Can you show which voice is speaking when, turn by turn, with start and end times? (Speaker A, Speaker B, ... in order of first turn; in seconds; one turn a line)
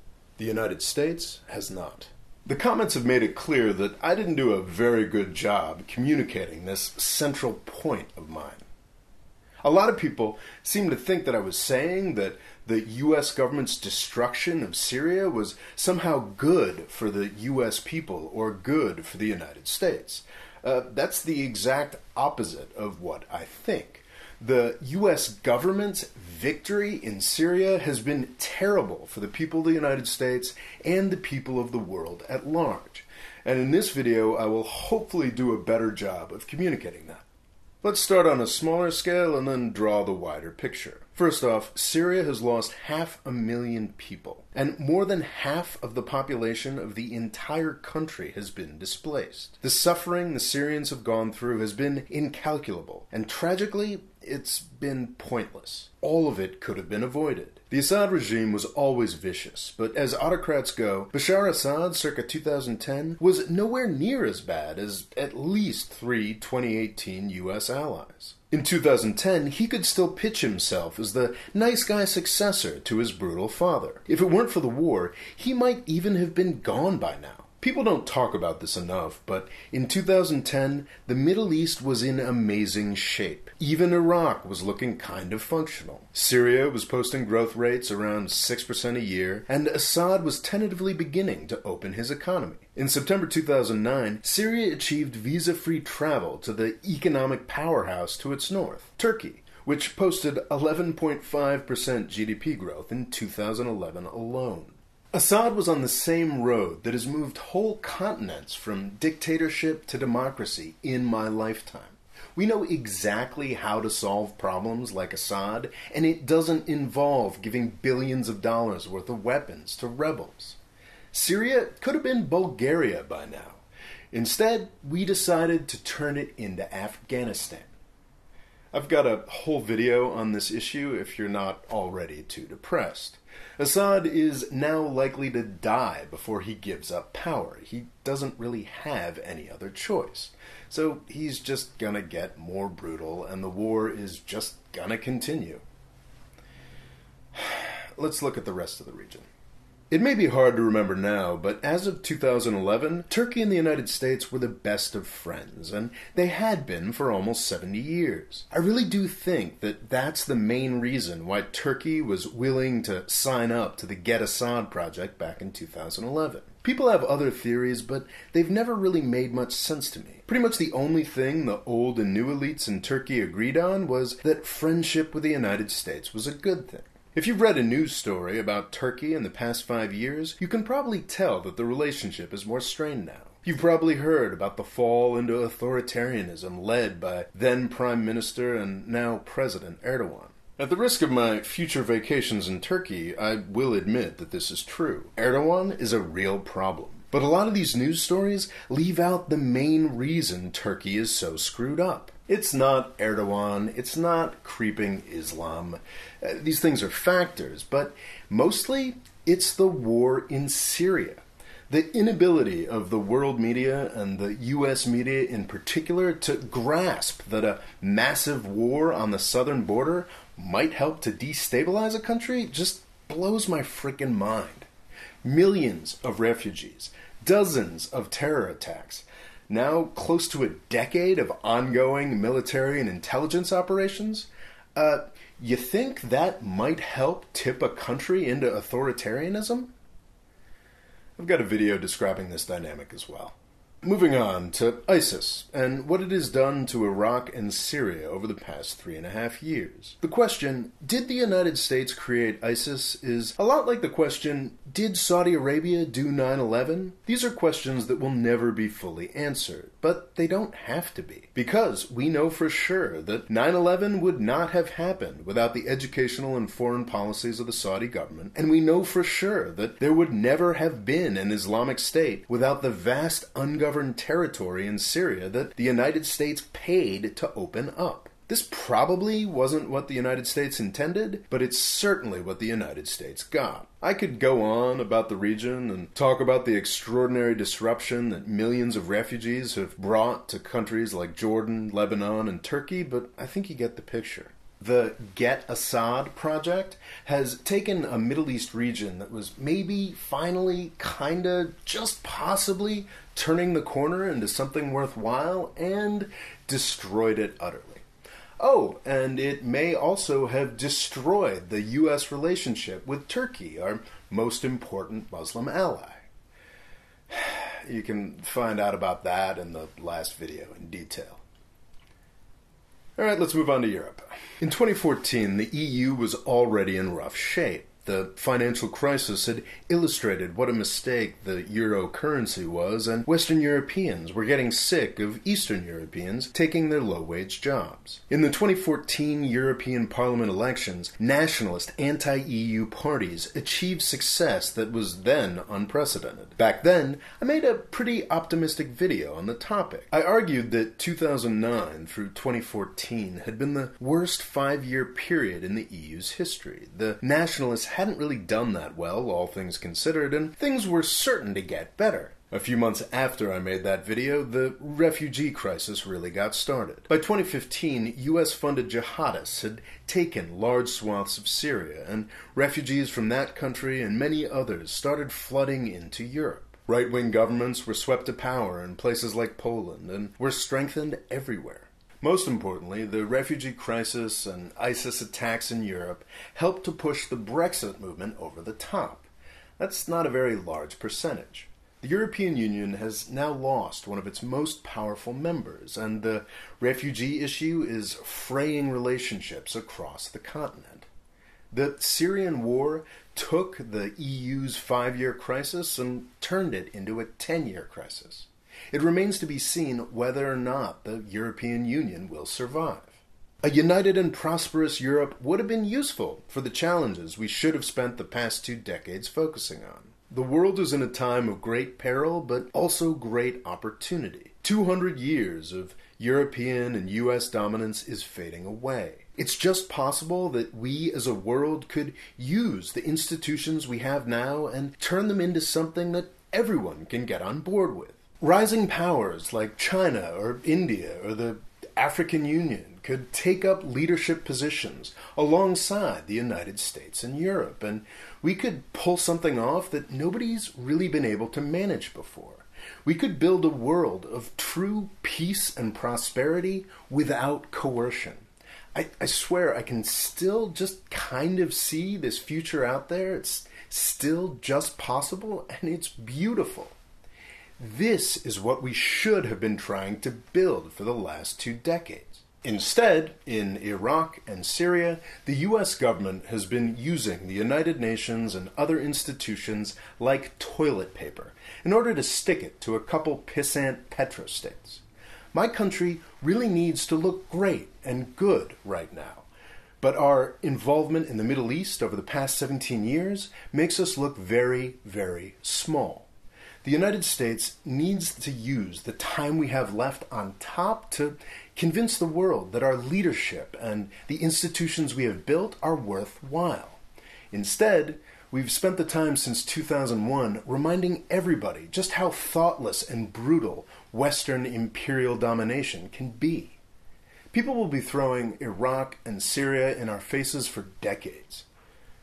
Speaker A: 0.4-8.6
Speaker A: 9.6-37.2
Speaker A: 37.8-120.6
Speaker A: 121.1-127.7
Speaker A: 128.7-145.6
Speaker A: 147.3-149.2
Speaker A: 149.9-224.7
Speaker A: 225.2-239.7
Speaker A: 241.2-307.8
Speaker A: 308.4-316.0
Speaker A: 317.1-321.2
Speaker A: 323.0-400.9
Speaker A: 401.5-466.7
Speaker A: 467.6-484.8
Speaker A: 485.3-489.3
Speaker A: 489.8-496.1
Speaker A: 496.6-506.8
Speaker A: 507.3-516.6
Speaker A: 517.3-521.5